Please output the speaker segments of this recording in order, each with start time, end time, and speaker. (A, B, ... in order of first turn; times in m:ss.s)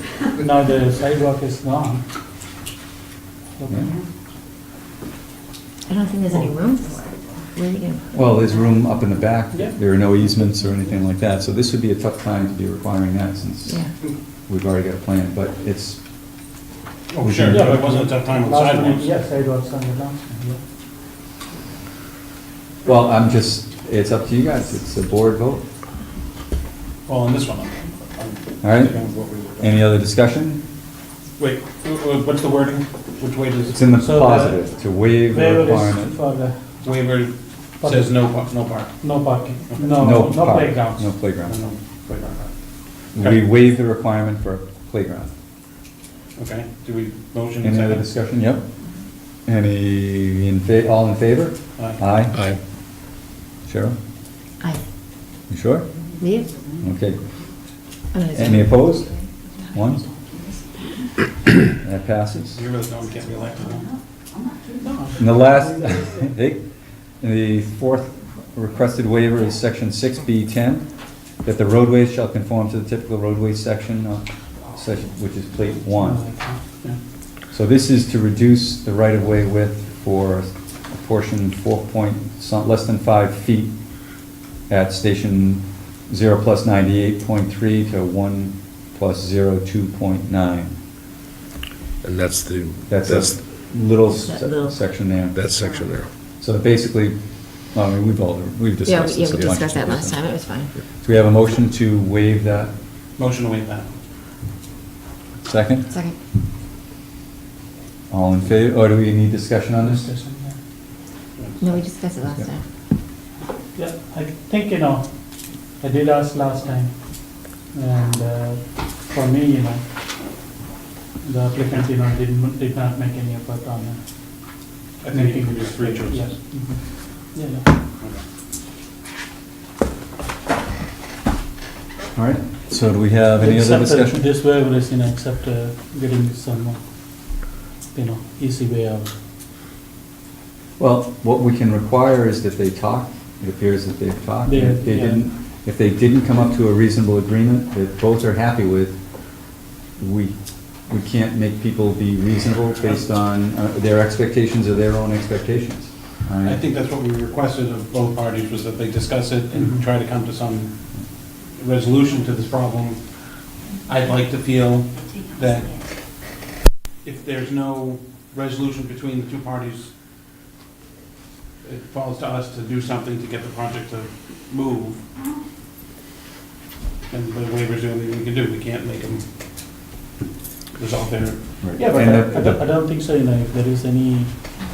0:00.4-0:02.0 A
0:03.6-0:04.0 A
0:05.9-0:08.3 B
0:08.1-0:13.9 C
0:09.5-0:09.8 A
0:13.7-0:13.9 B
0:14.5-0:16.0 C
0:17.1-0:19.1 D
0:17.2-0:17.7 C
0:17.4-0:20.6 A
0:22.8-0:25.6 C
0:27.1-0:29.7 D
0:28.6-0:29.0 C
0:29.6-0:30.6 C
0:31.4-0:34.1 D
0:33.7-0:36.2 C
0:34.0-0:34.7 A
0:35.2-0:36.6 A
0:36.8-0:39.0 D
0:37.8-0:38.3 A
0:39.0-0:41.1 A
0:39.7-0:40.0 D
0:40.0-0:41.6 C
0:41.4-0:42.5 D
0:43.2-0:43.4 D
0:43.2-0:45.3 C
0:46.4-0:48.1 D
0:47.6-0:48.7 C
0:49.5-0:52.4 C
0:52.3-0:52.6 E
0:53.7-0:54.0 C
0:55.5-0:55.9 C
0:56.2-0:56.5 B
0:56.8-0:57.2 C
0:58.1-0:59.4 B
0:58.3-0:59.1 C
0:59.7-1:00.0 C
1:01.8-1:02.6 C
1:02.5-1:04.0 D
1:04.8-1:05.2 D
1:05.2-1:06.6 C
1:05.7-1:06.3 A
1:07.2-1:10.9 C
1:11.4-1:16.2 C
1:16.0-1:16.6 A
1:17.5-1:23.7 C
1:24.7-1:30.8 C
1:32.0-1:33.4 E
1:32.9-1:35.5 C
1:34.1-1:34.8 B
1:35.3-1:36.1 E
1:36.4-1:37.2 C
1:37.7-1:42.7 C
1:38.9-1:40.7 B
1:39.4-1:39.6 E
1:43.2-1:43.9 D
1:45.4-1:45.9 C
1:45.9-1:46.2 B
1:48.1-1:50.0 C
1:49.8-1:50.6 A
1:51.4-1:51.8 D
1:51.6-1:52.6 B
1:53.8-1:55.1 A
1:55.8-1:56.9 A
1:57.6-1:59.8 A
2:01.2-2:04.0 A
2:05.0-2:06.4 D
2:05.1-2:06.8 A
2:07.3-2:07.7 A
2:12.2-2:14.2 C
2:13.4-2:16.8 A
2:17.9-2:19.1 A
2:20.8-2:29.0 C
2:24.4-2:25.3 A
2:30.0-2:30.3 C
2:30.8-2:36.6 C
2:36.4-2:40.7 D
2:41.5-2:43.0 D
2:43.9-2:45.8 D
2:47.0-2:49.9 D
2:51.6-2:55.0 D
2:57.1-2:59.2 D
3:00.8-3:02.2 D
3:01.6-3:02.7 C
3:01.8-3:04.3 A